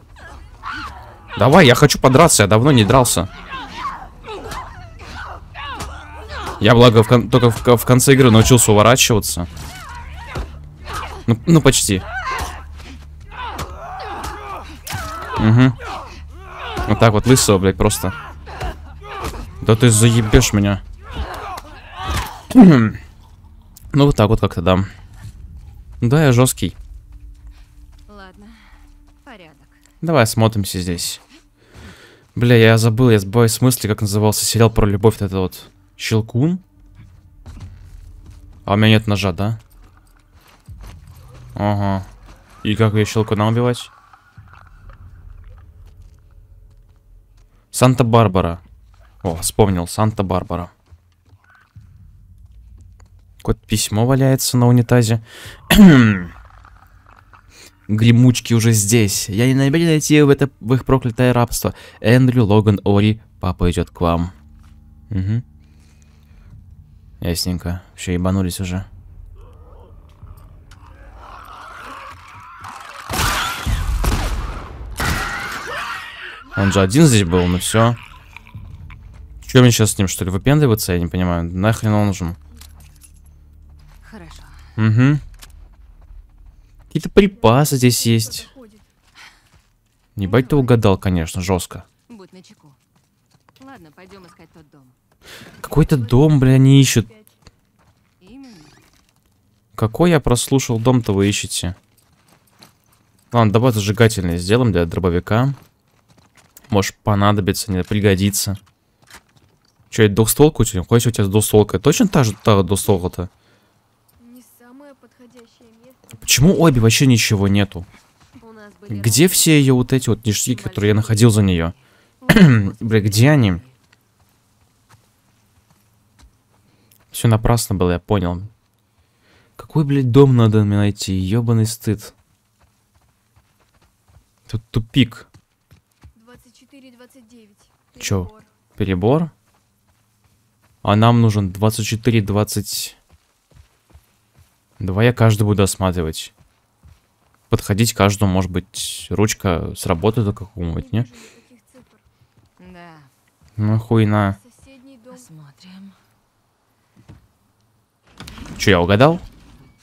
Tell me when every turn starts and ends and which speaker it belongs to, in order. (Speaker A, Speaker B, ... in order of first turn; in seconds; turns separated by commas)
Speaker A: 1.4-3.3, Speaker A: 6.6-9.5, Speaker A: 11.3-12.1, Speaker A: 15.4-15.8, Speaker A: 16.9-18.2, Speaker A: 19.6-20.8, Speaker A: 22.5-23.0, Speaker A: 23.9-24.9, Speaker A: 26.0-26.8, Speaker B: 28.1-29.9, Speaker A: 30.0-31.2, Speaker A: 32.4-36.6, Speaker A: 38.7-39.6, Speaker A: 41.5-42.1, Speaker A: 42.6-43.9, Speaker A: 47.7-48.6, Speaker A: 49.2-50.7, Speaker A: 53.4-56.3, Speaker A: 57.9-64.3, Speaker A: 65.1-65.4, Speaker A: 67.2-68.9, Speaker A: 76.6-78.0, Speaker A: 79.4-82.4, Speaker B: 84.0-84.7, Speaker A: 84.8-85.2, Speaker A: 86.9-88.5, Speaker C: 87.2-88.9, Speaker A: 90.2-91.9, Speaker B: 90.2-90.8, Speaker B: 92.1-92.8, Speaker B: 93.6-95.0, Speaker A: 95.6-97.1, Speaker C: 95.6-97.4, Speaker B: 98.2-98.8, Speaker A: 99.8-101.8, Speaker A: 103.3-105.6, Speaker A: 106.7-108.6, Speaker A: 109.9-113.3, Speaker C: 114.2-116.9, Speaker A: 116.2-117.9, Speaker B: 118.4-123.8, Speaker A: 118.9-121.7, Speaker A: 122.3-123.6, Speaker A: 127.1-128.5, Speaker A: 129.6-132.1, Speaker A: 134.5-135.3, Speaker C: 136.1-138.5, Speaker A: 138.0-139.3, Speaker A: 140.8-143.0, Speaker A: 144.8-146.3, Speaker A: 147.5-151.1, Speaker C: 150.7-152.1, Speaker B: 152.6-153.1, Speaker A: 153.6-154.4, Speaker C: 154.1-155.3, Speaker B: 155.1-156.0, Speaker A: 158.6-159.2